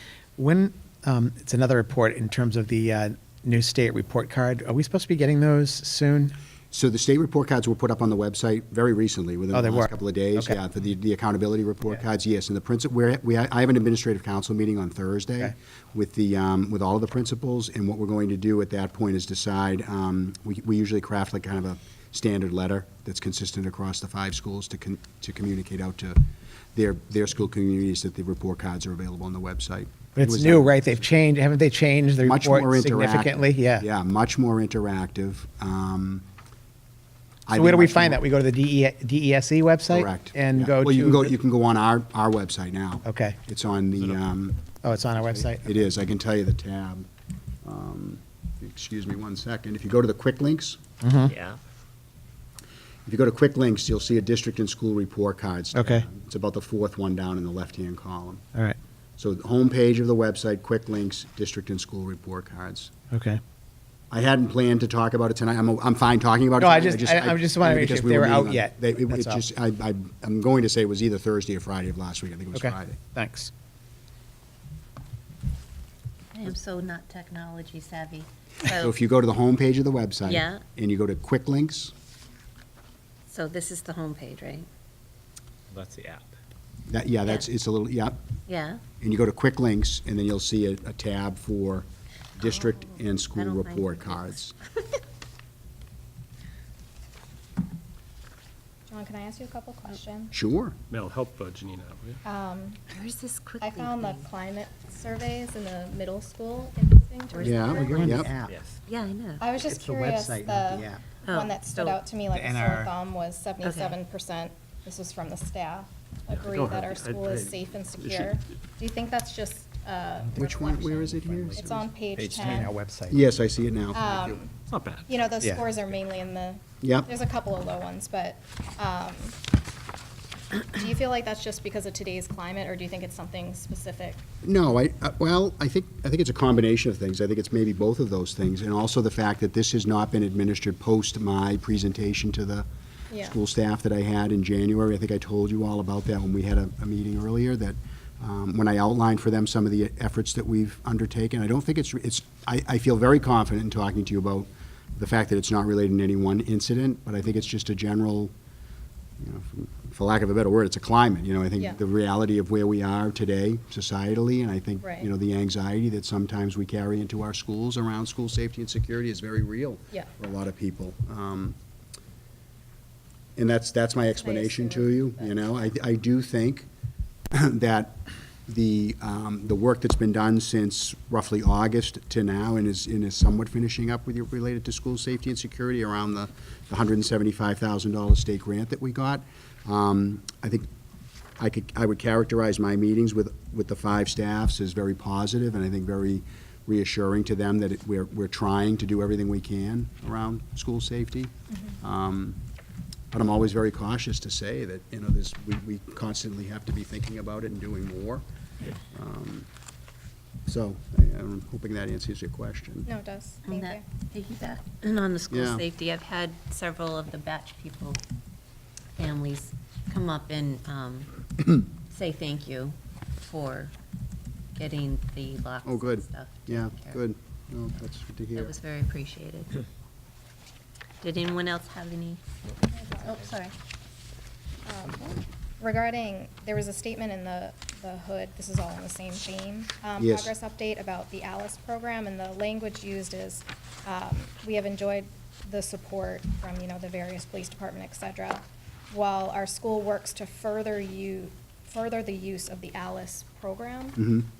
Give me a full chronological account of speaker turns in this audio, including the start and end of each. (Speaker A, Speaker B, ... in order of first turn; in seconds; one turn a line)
Speaker A: 0.4-6.3
Speaker B: 6.7-26.2
Speaker A: 9.5-10.6
Speaker B: 26.7-31.0
Speaker A: 30.1-33.9
Speaker B: 32.2-36.2
Speaker B: 37.5-38.2
Speaker A: 37.5-41.3
Speaker B: 39.9-44.6
Speaker A: 43.0-43.4
Speaker A: 44.8-45.8
Speaker B: 45.2-47.1
Speaker B: 47.6-50.8
Speaker A: 51.0-51.3
Speaker C: 51.3-51.6
Speaker B: 53.0-58.4
Speaker A: 55.7-56.0
Speaker B: 59.2-62.9
Speaker A: 63.1-63.4
Speaker B: 64.1-73.0
Speaker A: 66.6-69.4
Speaker A: 72.5-73.5
Speaker D: 76.3-78.9
Speaker B: 78.7-81.9
Speaker D: 80.2-80.6
Speaker D: 83.3-84.7
Speaker C: 85.7-86.3
Speaker B: 86.9-88.2
Speaker D: 88.5-88.8
Speaker B: 89.0-94.5
Speaker D: 93.3-95.0
Speaker E: 98.9-100.3
Speaker B: 100.3-100.8
Speaker C: 100.9-102.2
Speaker E: 102.2-102.8
Speaker D: 102.9-104.2
Speaker E: 103.6-108.2
Speaker D: 107.3-107.7
Speaker B: 107.4-108.3
Speaker A: 107.7-108.6
Speaker C: 108.5-108.8
Speaker D: 108.8-109.4
Speaker E: 109.4-122.7
Speaker A: 109.5-111.0
Speaker D: 111.2-112.0
Speaker A: 112.3-112.9
Speaker D: 113.6-114.0
Speaker C: 116.3-117.5
Speaker B: 120.3-121.9
Speaker A: 121.3-121.6
Speaker A: 122.1-123.2
Speaker B: 123.1-124.4
Speaker E: 123.9-124.5
Speaker C: 124.7-125.1
Speaker E: 125.1-129.4
Speaker B: 126.8-127.1
Speaker E: 130.6-134.2
Speaker B: 134.4-142.7
Speaker E: 143.1-143.3
Speaker B: 143.2-158.3
Speaker B: 159.2-171.6
Speaker E: 164.8-165.1
Speaker B: 173.3-176.7
Speaker E: 174.2-175.4
Speaker B: 177.3-190.7
Speaker B: 191.4-202.4
Speaker E: 201.5-201.8
Speaker B: 203.1-208.2
Speaker B: 208.9-209.5
Speaker B: 210.4-212.9
Speaker E: 212.8-213.8
Speaker D: 213.4-218.0
Speaker B: 215.3-215.6
Speaker D: 218.9-223.7
Speaker D: 224.5-227.0
Speaker B: 225.6-228.5
Speaker D: 228.3-229.6
Speaker D: 231.0-232.2
Speaker D: 232.8-233.5
Speaker E: 234.6-254.0
Speaker B: 240.0-240.3
Speaker B: 254.0-254.3